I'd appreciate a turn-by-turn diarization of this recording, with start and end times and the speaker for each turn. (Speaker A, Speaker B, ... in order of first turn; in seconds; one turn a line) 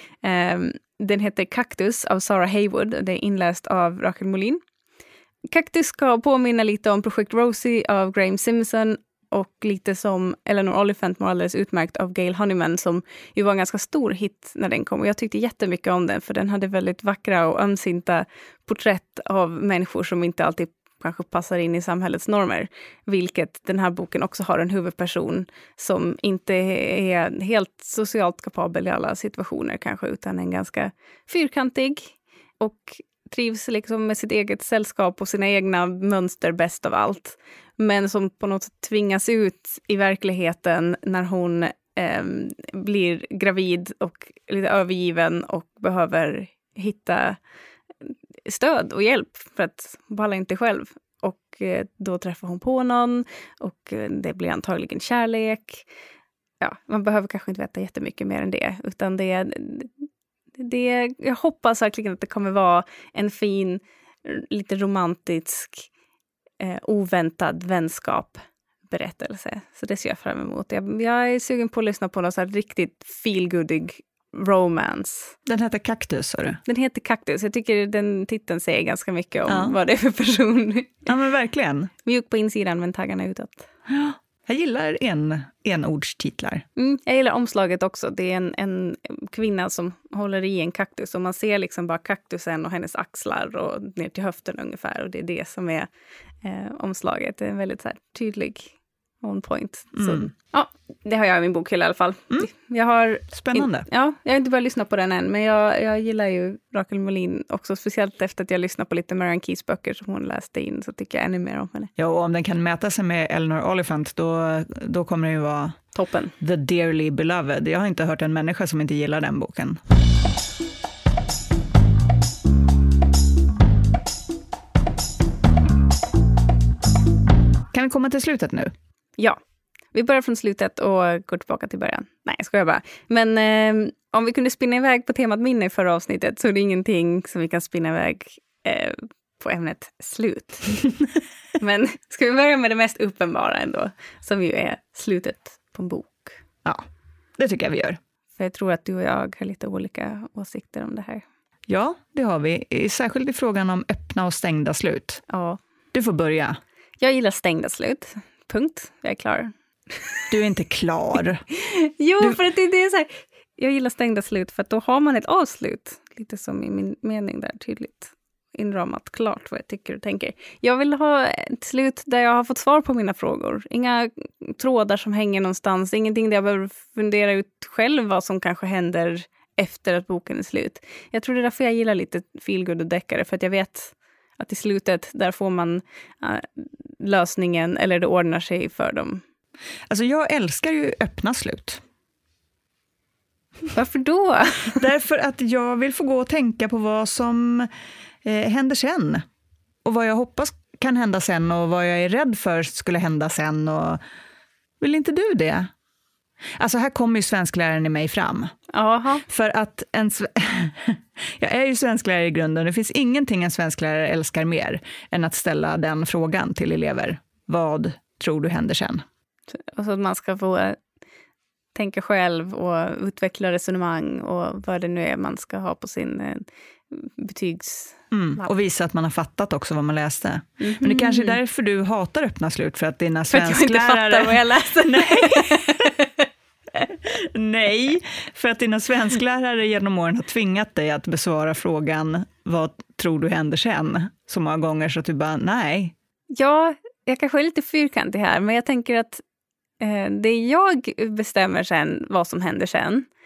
Speaker A: 0.2-4.6
Speaker A: 5.5-47.4
Speaker A: 48.0-55.9
Speaker A: 56.6-65.9
Speaker A: 66.6-75.3
Speaker B: 75.5-76.6
Speaker A: 76.7-81.0
Speaker B: 79.5-79.8
Speaker B: 81.0-81.9
Speaker A: 82.0-83.7
Speaker B: 83.9-86.6
Speaker A: 86.8-95.9
Speaker A: 96.4-111.9
Speaker B: 100.0-100.3
Speaker B: 103.3-103.9
Speaker B: 112.0-115.8
Speaker A: 116.0-116.3
Speaker B: 116.4-119.8
Speaker B: 127.7-128.7
Speaker A: 129.9-140.9
Speaker A: 141.6-146.4
Speaker B: 147.4-148.0
Speaker A: 148.4-151.2
Speaker B: 151.7-155.2
Speaker A: 155.3-155.6
Speaker B: 155.9-156.6
Speaker A: 157.0-160.2
Speaker B: 160.3-161.4
Speaker A: 161.5-189.2
Speaker B: 189.9-191.8
Speaker A: 193.7-194.9
Speaker B: 194.8-197.7
Speaker B: 198.2-199.2
Speaker B: 199.8-204.0
Speaker B: 204.8-205.7
Speaker B: 206.6-208.5
Speaker A: 208.7-209.2
Speaker B: 209.2-219.0
Speaker A: 219.5-220.8
Speaker A: 221.8-228.5
Speaker B: 228.1-235.9
Speaker A: 230.6-231.4
Speaker A: 233.3-236.2
Speaker B: 237.0-245.9
Speaker A: 246.3-249.2
Speaker A: 249.8-253.1